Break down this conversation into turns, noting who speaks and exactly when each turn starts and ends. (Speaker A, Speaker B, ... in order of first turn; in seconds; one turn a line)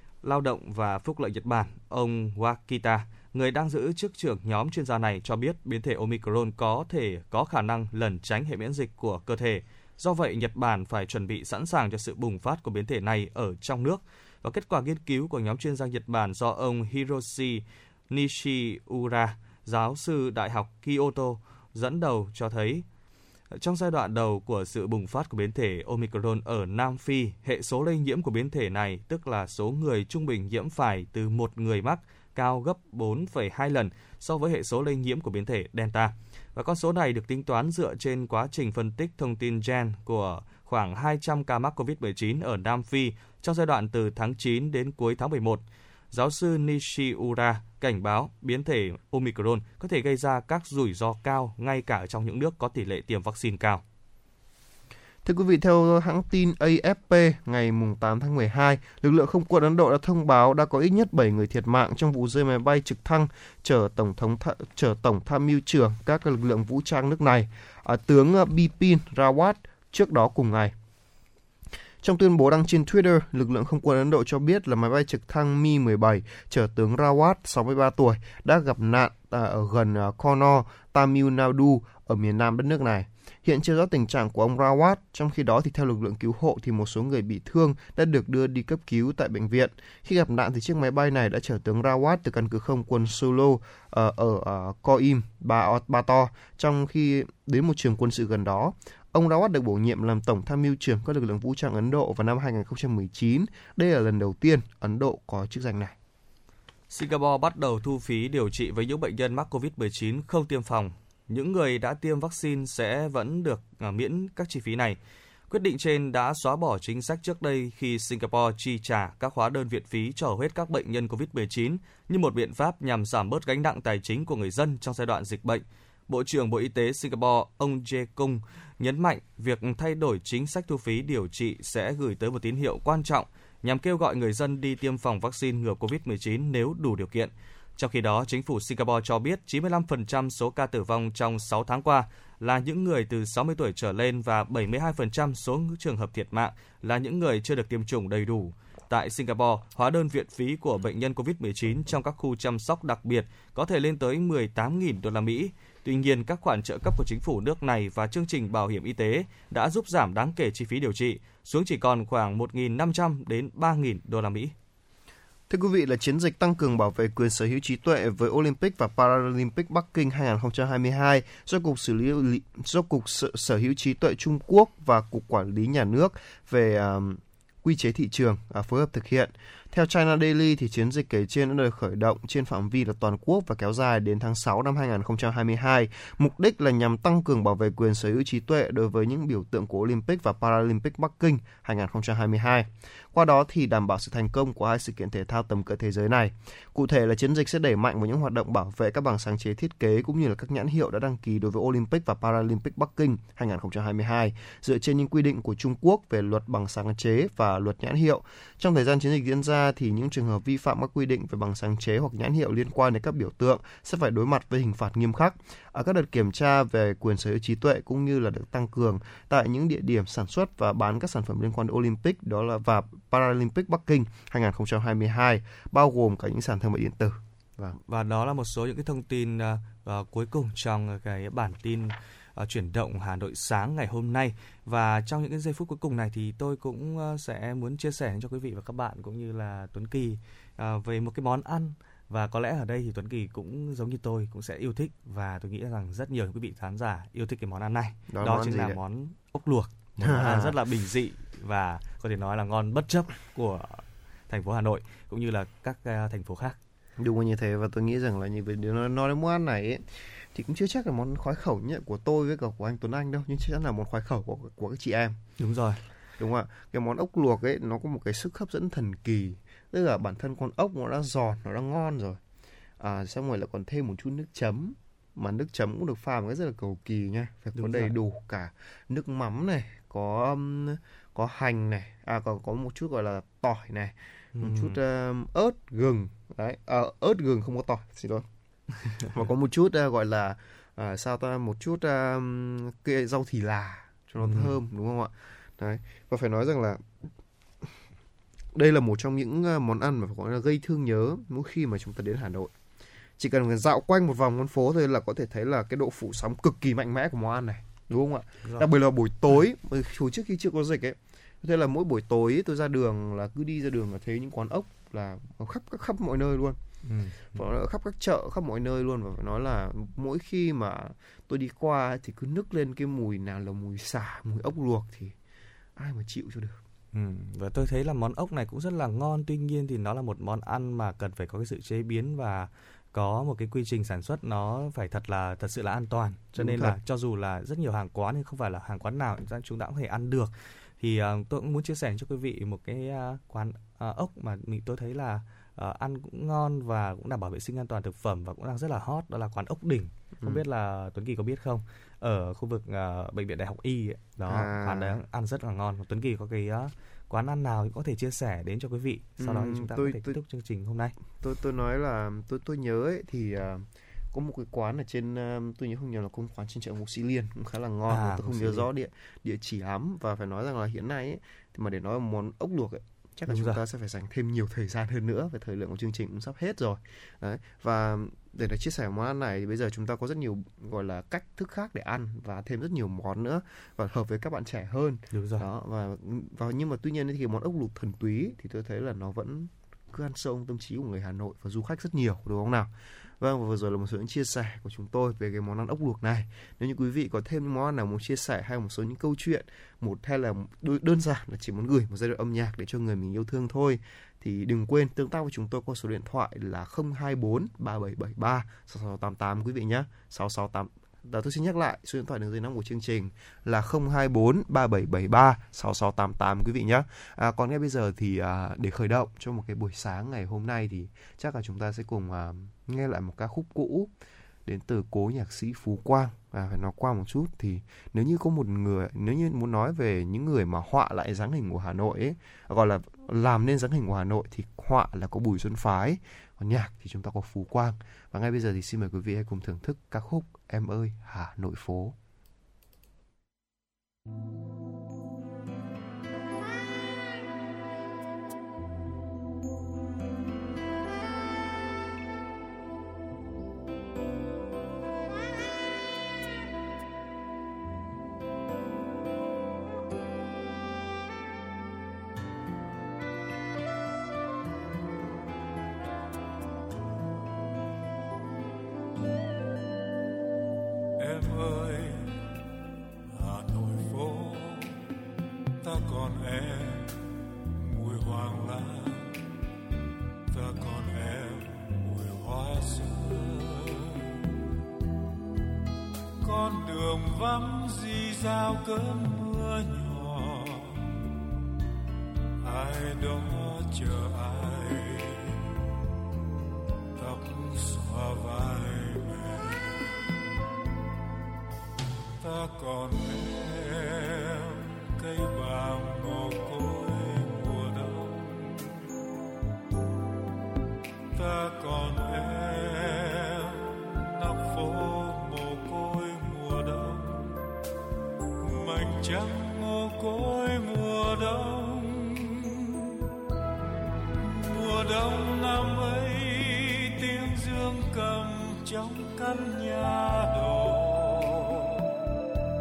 Speaker A: 0.2-22.9
Speaker A: 23.5-53.8
Speaker B: 55.2-70.7
Speaker B: 72.0-106.0
Speaker A: 106.9-115.0
Speaker A: 115.5-164.5
Speaker B: 165.5-227.8
Speaker A: 227.8-256.6
Speaker B: 248.1-248.8
Speaker B: 250.0-250.6
Speaker B: 257.0-265.2
Speaker A: 265.4-265.8
Speaker B: 266.2-272.2
Speaker B: 272.8-288.2
Speaker A: 277.5-277.9
Speaker A: 284.3-284.8
Speaker B: 289.0-296.8
Speaker A: 294.2-294.6
Speaker B: 298.5-302.5
Speaker B: 303.2-316.6
Speaker A: 316.8-317.4
Speaker B: 317.3-325.1
Speaker B: 325.8-326.6
Speaker A: 326.9-360.9
Speaker B: 336.3-336.8
Speaker B: 354.2-355.0
Speaker B: 359.2-360.2
Speaker B: 361.2-423.9
Speaker A: 367.9-368.7
Speaker A: 373.3-373.6
Speaker A: 385.1-385.4
Speaker B: 424.4-441.9
Speaker C: 471.0-472.2
Speaker C: 473.1-474.8
Speaker C: 475.6-477.0
Speaker C: 477.5-479.2
Speaker C: 480.3-484.1
Speaker C: 486.2-490.9
Speaker C: 492.4-495.4
Speaker C: 496.9-499.8
Speaker C: 502.2-508.8
Speaker C: 511.1-517.4
Speaker C: 518.4-522.7
Speaker C: 524.2-531.8